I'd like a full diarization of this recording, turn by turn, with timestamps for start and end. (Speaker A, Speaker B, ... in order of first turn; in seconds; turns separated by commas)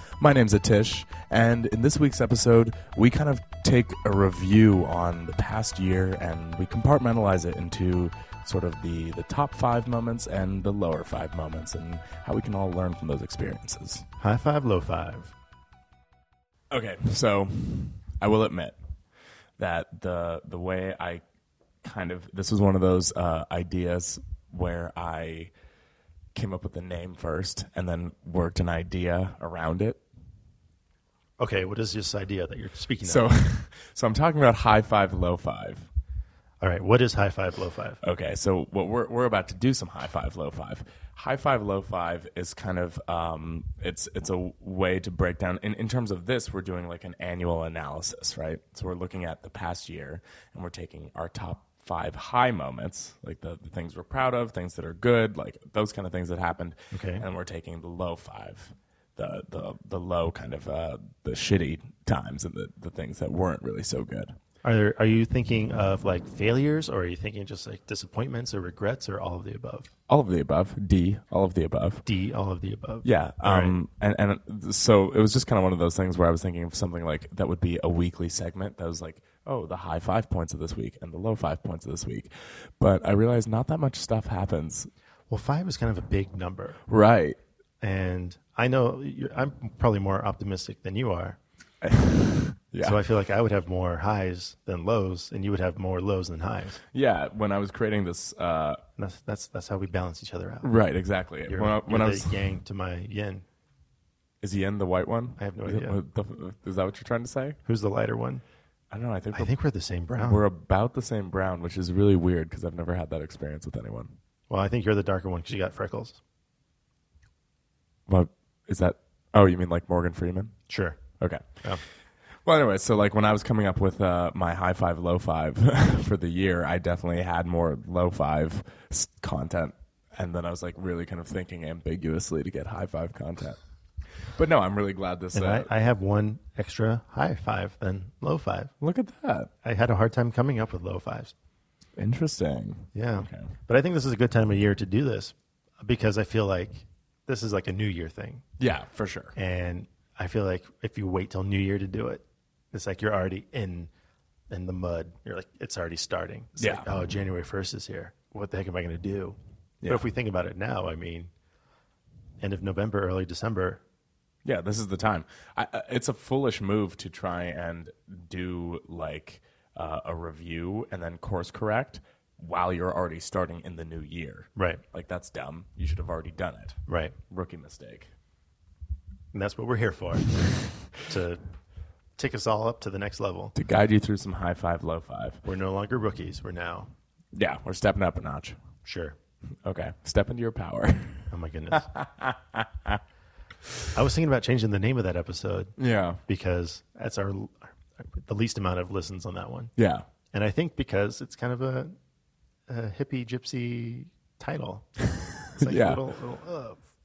Speaker A: 0.2-14.1, Speaker B: 14.2-15.3, Speaker A: 16.7-18.8, Speaker A: 19.6-21.2, Speaker A: 21.8-25.5, Speaker A: 26.4-30.0, Speaker B: 31.4-33.3, Speaker A: 33.0-35.9, Speaker B: 36.6-38.0, Speaker A: 38.0-64.3, Speaker B: 56.9-57.2, Speaker B: 64.6-69.9, Speaker A: 70.1-72.0, Speaker B: 72.0-73.8, Speaker A: 73.0-84.9, Speaker B: 85.3-86.8, Speaker A: 86.9-87.4, Speaker B: 87.8-91.4, Speaker A: 91.8-93.0, Speaker B: 92.8-96.8, Speaker A: 96.9-98.8, Speaker B: 99.0-100.7, Speaker A: 100.6-102.5, Speaker B: 101.5-103.5, Speaker A: 104.4-107.6, Speaker B: 105.4-106.0, Speaker B: 107.7-108.4, Speaker A: 108.9-109.5, Speaker B: 109.3-110.4, Speaker A: 110.2-114.2, Speaker B: 114.5-116.2, Speaker A: 118.1-120.5, Speaker B: 120.7-121.0, Speaker A: 121.2-121.5, Speaker A: 122.5-133.6, Speaker A: 134.2-135.7, Speaker B: 135.3-138.7, Speaker A: 138.8-139.5, Speaker B: 139.6-141.3, Speaker A: 142.0-143.5, Speaker B: 142.9-148.4, Speaker A: 148.6-149.3, Speaker B: 149.3-153.9, Speaker B: 154.5-161.3, Speaker A: 156.6-156.9, Speaker A: 159.8-160.1, Speaker B: 162.4-163.8, Speaker A: 164.4-178.1, Speaker B: 174.6-174.8, Speaker B: 176.9-177.1, Speaker B: 179.3-181.4, Speaker B: 182.2-183.5, Speaker A: 183.5-185.4, Speaker B: 185.4-186.9, Speaker A: 187.3-188.6, Speaker B: 188.8-189.2, Speaker A: 189.6-193.0, Speaker B: 191.3-191.9, Speaker B: 193.9-195.7, Speaker A: 195.8-196.2, Speaker B: 196.3-199.7, Speaker A: 199.8-200.1, Speaker B: 200.3-201.9, Speaker B: 202.7-206.8, Speaker A: 205.1-206.0